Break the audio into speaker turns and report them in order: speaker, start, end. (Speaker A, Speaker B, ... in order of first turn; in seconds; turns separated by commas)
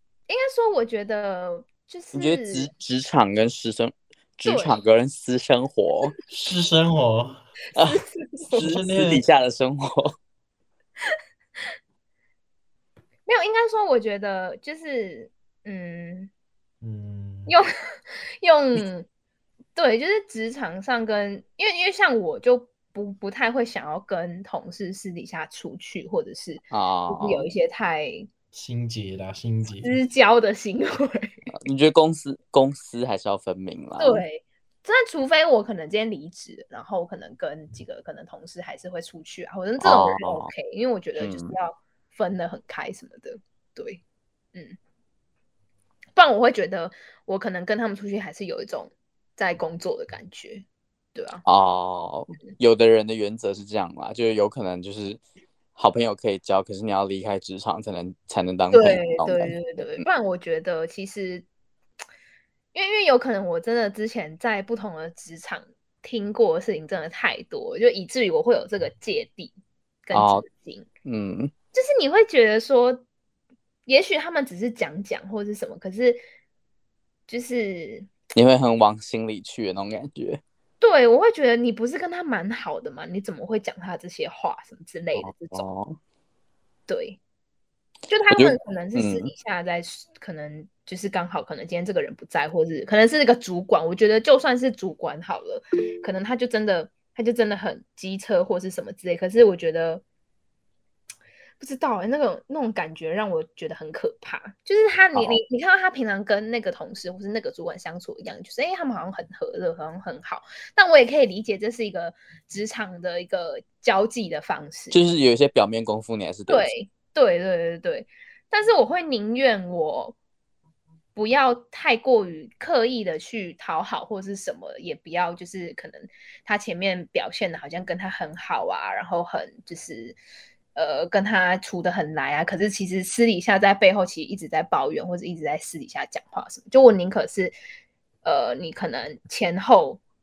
Speaker A: 0.3-2.7, Speaker B: 2.1-6.1, Speaker A: 4.4-4.8, Speaker C: 6.3-7.4, Speaker A: 7.7-8.7, Speaker B: 8.5-10.2, Speaker C: 8.6-9.2, Speaker A: 13.3-16.3, Speaker C: 16.8-17.5, Speaker A: 18.4-19.1, Speaker A: 19.8-28.3, Speaker B: 26.7-27.5, Speaker C: 28.5-30.0, Speaker A: 29.8-31.4, Speaker B: 31.6-34.2, Speaker A: 34.0-44.0, Speaker B: 39.8-40.5, Speaker B: 41.2-41.5, Speaker A: 46.1-51.4, Speaker B: 51.5-55.2, Speaker B: 55.8-60.0, Speaker A: 58.7-61.5, Speaker A: 62.7-69.5, Speaker A: 70.1-70.9, Speaker B: 70.1-70.5, Speaker B: 71.0-71.5, Speaker A: 71.7-73.0, Speaker A: 73.9-76.2, Speaker A: 77.3-78.1, Speaker B: 78.3-80.4, Speaker A: 80.8-85.7, Speaker B: 85.2-86.0, Speaker A: 86.9-87.2, Speaker A: 88.1-100.0, Speaker B: 88.3-89.3, Speaker A: 101.6-115.0, Speaker B: 114.9-116.7, Speaker A: 116.5-120.2, Speaker A: 121.2-130.2, Speaker A: 130.8-137.5, Speaker A: 138.2-140.0